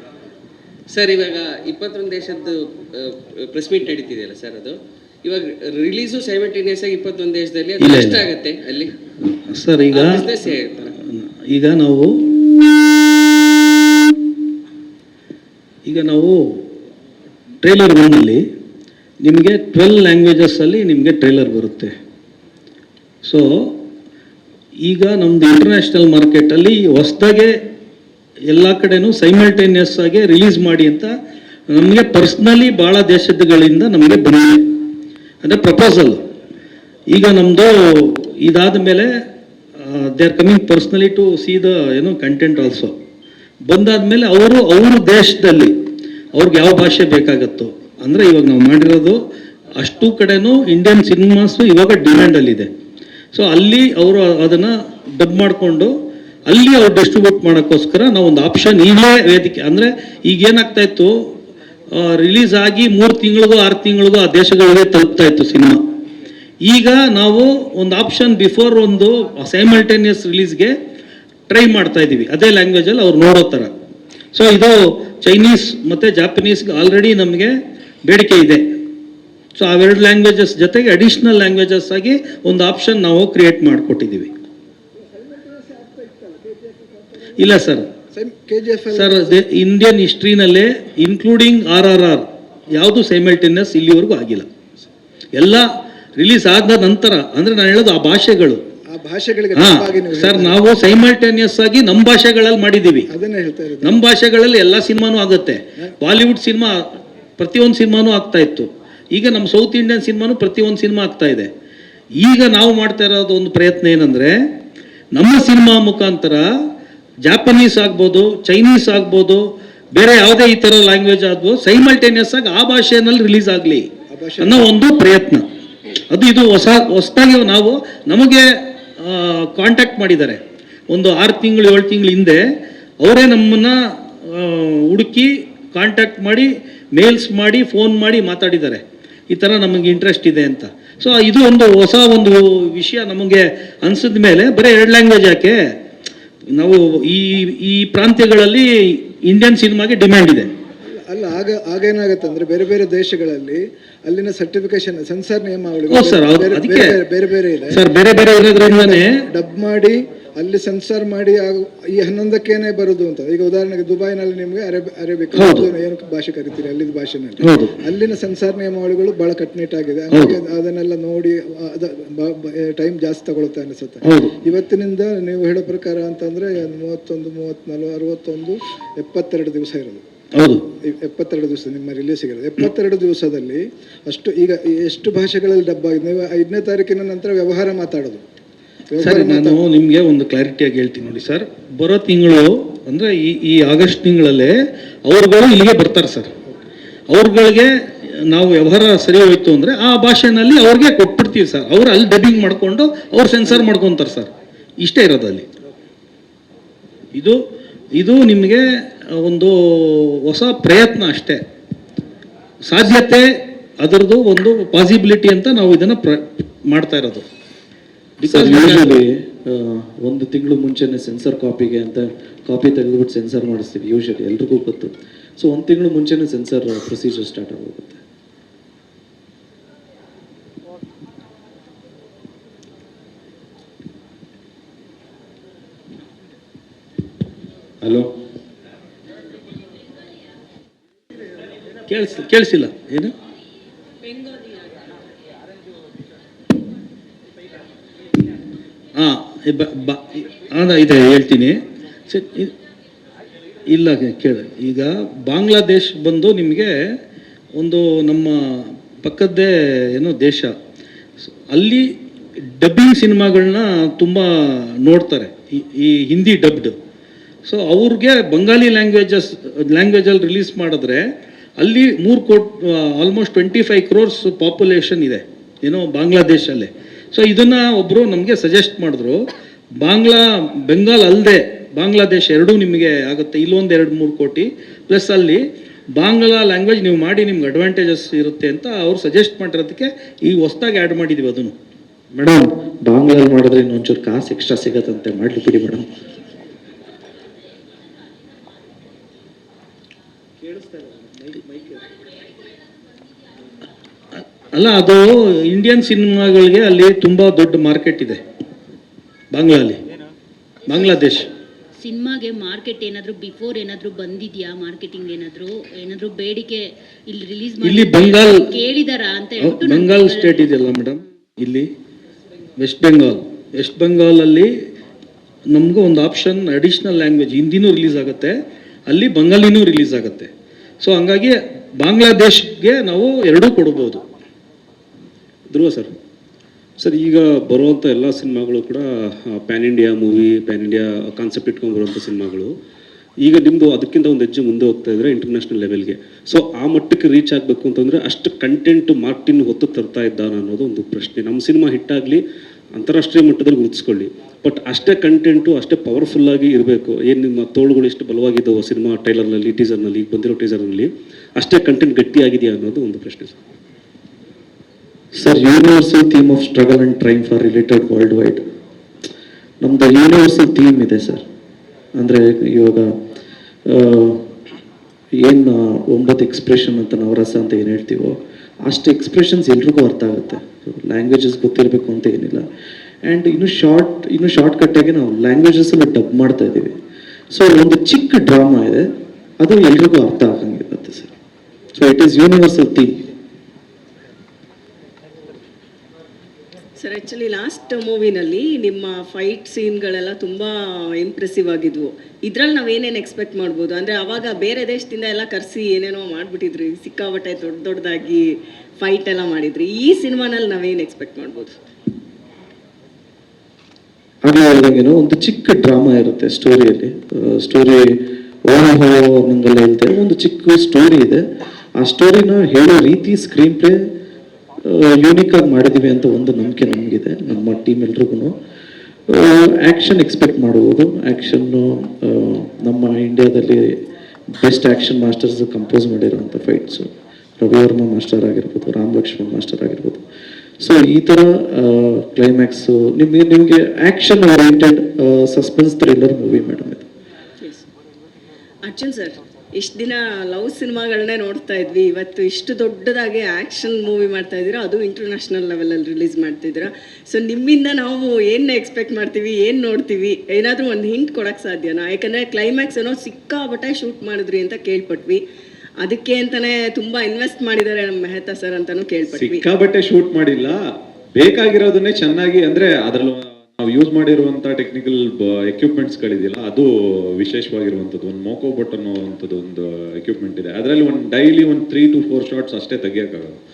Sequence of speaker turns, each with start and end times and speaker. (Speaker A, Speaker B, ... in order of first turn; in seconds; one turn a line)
Speaker A: 0.9-8.9
Speaker B: 7.8-8.2
Speaker B: 9.5-10.3
Speaker A: 9.9-10.9
Speaker B: 11.1-12.1
Speaker B: 15.8-16.6
Speaker B: 17.6-18.4
Speaker B: 19.2-21.9
Speaker B: 23.2-23.8
Speaker B: 24.8-27.5
Speaker B: 28.5-31.1
Speaker B: 31.7-34.6
Speaker B: 35.4-36.2
Speaker B: 37.1-39.1
Speaker B: 39.8-42.9
Speaker B: 43.6-45.7
Speaker B: 46.3-49.2
Speaker B: 49.8-52.7
Speaker B: 53.3-55.9
Speaker B: 56.5-61.3
Speaker B: 61.9-65.8
Speaker B: 66.6-70.7
Speaker B: 71.5-73.7
Speaker B: 74.3-78.6
Speaker B: 79.5-84.3
Speaker C: 85.0-87.3
Speaker B: 87.4-87.8
Speaker C: 88.1-89.3
Speaker B: 88.9-94.5
Speaker B: 95.3-98.6
Speaker C: 98.9-100.6
Speaker B: 99.5-103.1
Speaker C: 103.1-104.0
Speaker B: 103.8-111.5
Speaker B: 112.2-114.4
Speaker B: 115.1-116.5
Speaker B: 117.2-123.8
Speaker C: 124.1-124.6
Speaker B: 124.4-125.4
Speaker B: 126.1-132.4
Speaker B: 133.0-145.7
Speaker B: 146.5-150.5
Speaker C: 151.1-157.8
Speaker B: 155.9-156.9
Speaker B: 157.7-159.2
Speaker C: 158.6-180.0
Speaker B: 165.3-165.7
Speaker B: 167.4-167.8
Speaker B: 174.0-174.3
Speaker B: 180.3-180.6
Speaker C: 180.8-188.2
Speaker C: 188.9-189.6
Speaker B: 189.0-196.3
Speaker B: 197.1-205.5
Speaker B: 207.9-211.4
Speaker B: 212.7-213.3
Speaker B: 213.8-217.2
Speaker B: 218.2-218.9
Speaker D: 218.2-228.0
Speaker E: 237.8-238.1
Speaker B: 241.9-243.1
Speaker B: 249.0-252.5
Speaker B: 253.7-256.7
Speaker B: 257.6-260.5
Speaker B: 261.5-261.9
Speaker B: 262.4-266.7
Speaker B: 267.4-279.2
Speaker B: 279.8-285.4
Speaker B: 285.9-291.5
Speaker D: 292.1-295.9
Speaker B: 304.5-308.2
Speaker B: 309.3-309.8
Speaker B: 310.6-311.3
Speaker F: 311.8-320.6
Speaker B: 317.6-318.6
Speaker B: 319.4-321.7
Speaker B: 322.6-324.5
Speaker B: 325.5-330.3
Speaker B: 330.8-334.0
Speaker G: 335.5-335.9
Speaker G: 336.8-342.5
Speaker G: 343.2-352.2
Speaker G: 352.7-363.4
Speaker D: 365.1-368.4
Speaker D: 369.6-371.2
Speaker D: 372.0-372.9
Speaker D: 373.6-374.3
Speaker D: 375.1-382.4
Speaker D: 383.0-386.7
Speaker D: 387.3-388.9
Speaker D: 389.4-391.1
Speaker D: 391.7-393.1
Speaker H: 396.8-408.2
Speaker H: 408.8-411.6
Speaker D: 414.2-421.2
Speaker D: 421.8-423.8
Speaker D: 424.6-428.3
Speaker D: 429.1-433.8
Speaker D: 434.4-440.0
Speaker D: 440.6-446.9
Speaker H: 448.6-465.2
Speaker H: 465.8-469.4
Speaker E: 469.1-470.6
Speaker E: 471.1-476.7
Speaker E: 477.2-483.4